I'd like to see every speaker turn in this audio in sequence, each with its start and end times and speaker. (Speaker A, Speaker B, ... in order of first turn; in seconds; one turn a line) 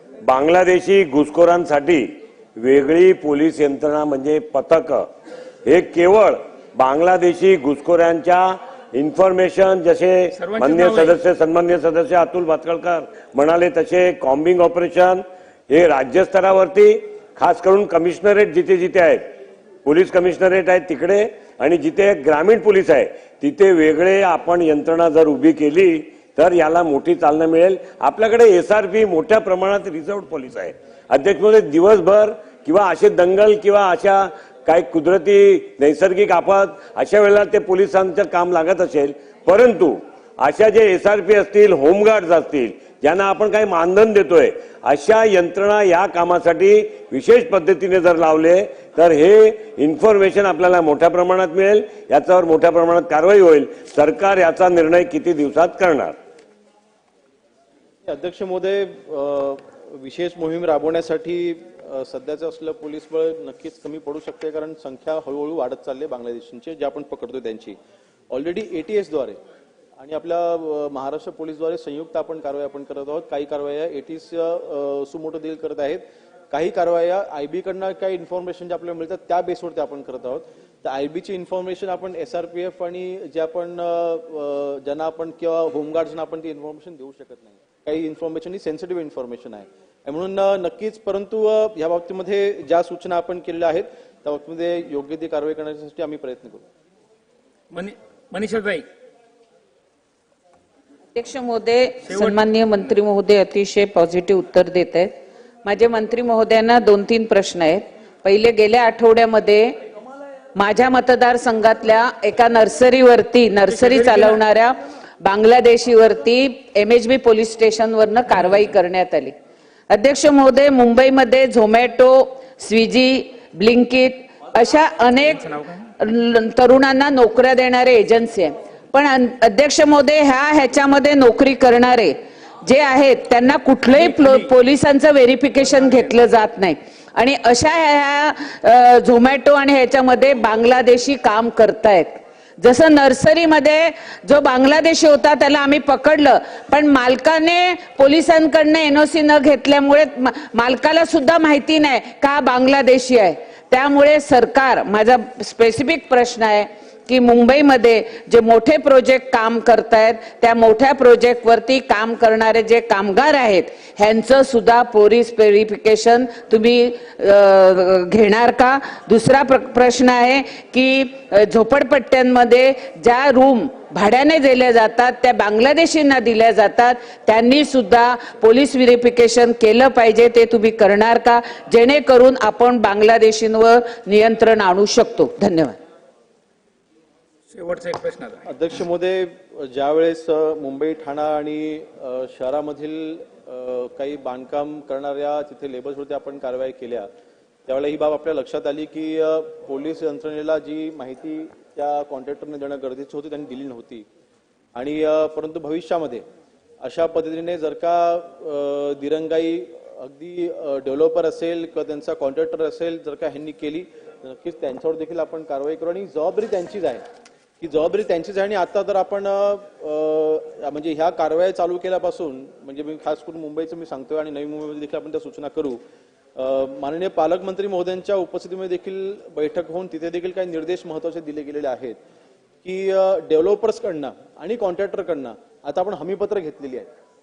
Speaker A: 0.2-5.1
Speaker A: 5.7-19.3
Speaker B: 10.3-11.2
Speaker A: 19.8-56.1
Speaker C: 58.0-67.8
Speaker C: 68.3-69.4
Speaker C: 70.0-96.7
Speaker B: 97.7-98.9
Speaker D: 101.2-105.1
Speaker B: 102.1-102.4
Speaker D: 105.6-109.7
Speaker D: 110.5-119.3
Speaker B: 113.7-114.4
Speaker D: 119.9-185.8
Speaker B: 133.9-134.5
Speaker B: 187.5-188.4
Speaker C: 188.5-197.1
Speaker C: 197.7-204.1
Speaker C: 204.8-206.3
Speaker C: 206.8-217.1
Speaker C: 217.6-225.8
Speaker C: 226.4-232.0
Speaker C: 232.6-236.9